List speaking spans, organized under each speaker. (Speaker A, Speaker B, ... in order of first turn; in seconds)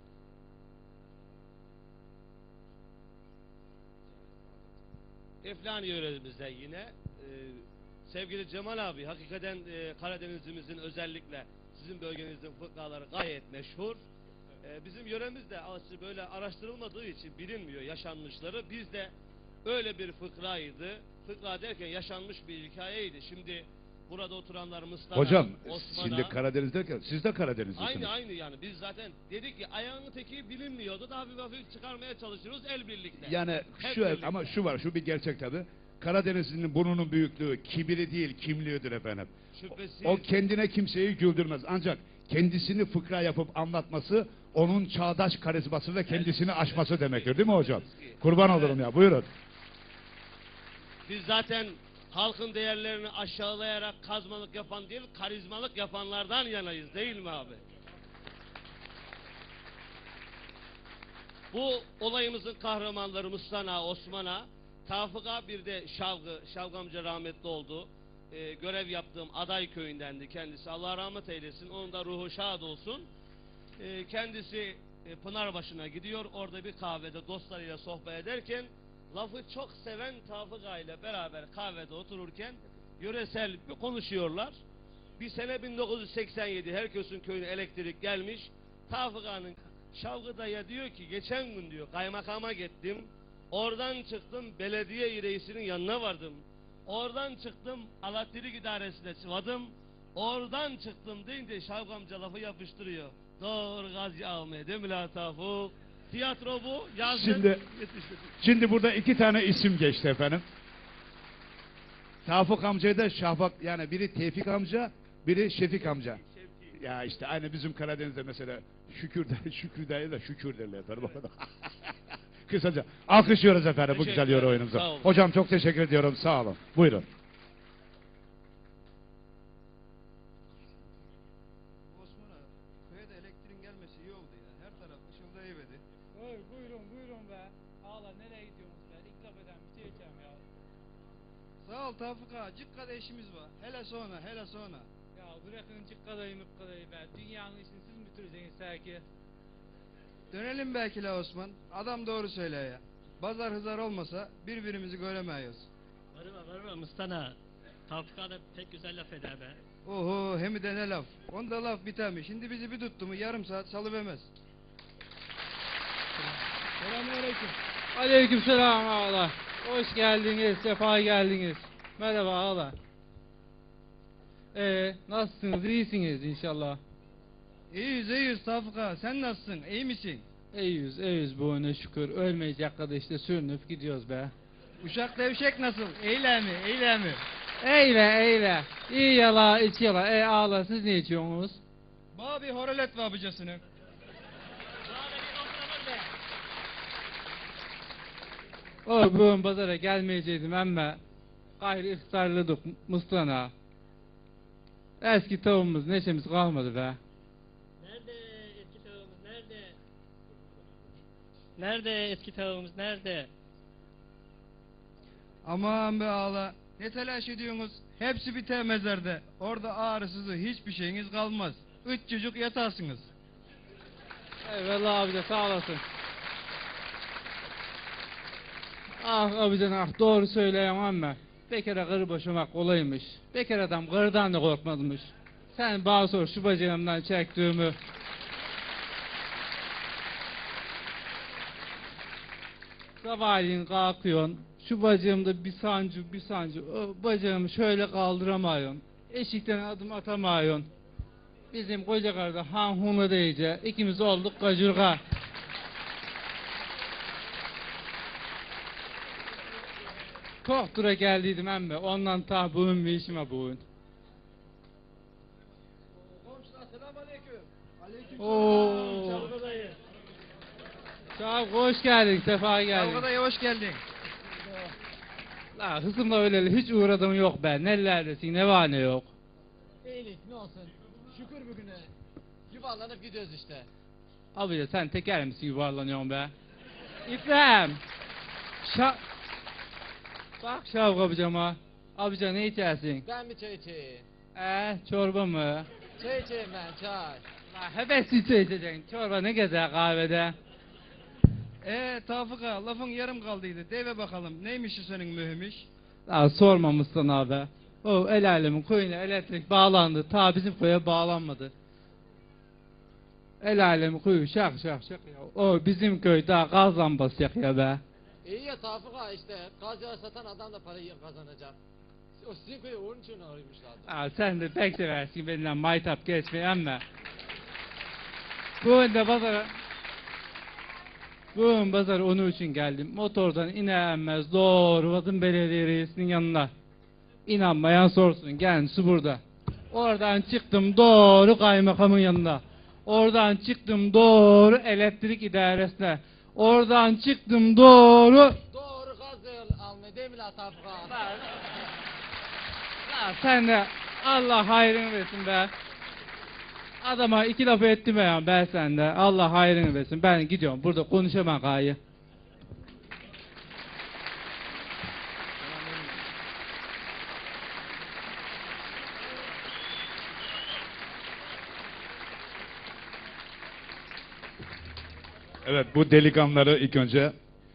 Speaker A: 5.4-14.0, 14.6-19.1, 19.6-26.4, 27.8-34.6, 39.5-40.3, 46.1-48.8, 51.1-57.6, 61.5-73.1, 73.8-84.6, 85.2-108.4, 123.9-125.2, 195.1-195.6
Speaker B: 25.1-28.1, 33.2-39.3, 40.0-49.3, 107.0-107.6, 108.4-110.4, 112.2-116.2, 116.7-127.0, 375.4-377.1
Speaker C: 131.9-135.8, 141.6-144.9, 150.3-155.7, 159.8-164.3, 166.8-167.5, 177.7-180.2, 184.8-187.2, 192.1-193.6, 215.4-223.1, 267.8-269.1, 272.7-273.8, 301.6-305.7
Speaker D: 136.1-140.4, 145.1-149.0, 167.9-172.7, 174.5-176.8, 180.5-184.3, 187.6-191.6, 198.8-201.0, 201.6-203.5, 205.0-207.0, 224.4-225.8, 229.0-237.8, 243.0-250.7, 251.5-255.0, 260.4-263.6, 268.2-269.3, 271.1-273.0, 275.5-279.1, 284.3-286.3, 287.1-287.8, 288.6-289.0, 290.4-293.0, 294.3-295.7, 297.5-300.3, 306.1-311.5, 313.4-317.8, 323.9-326.8, 328.6-329.5, 331.3-336.5, 337.2-348.4, 352.8-355.5, 356.8-361.8
Speaker E: 156.1-157.4, 157.9-159.6, 207.8-209.8, 211.6-213.3, 269.1-269.8
Speaker F: 266.6-267.4, 279.8-281.9, 282.5-283.7, 293.0-294.1, 296.0-297.2, 318.2-321.6, 322.1-323.9, 348.5-351.1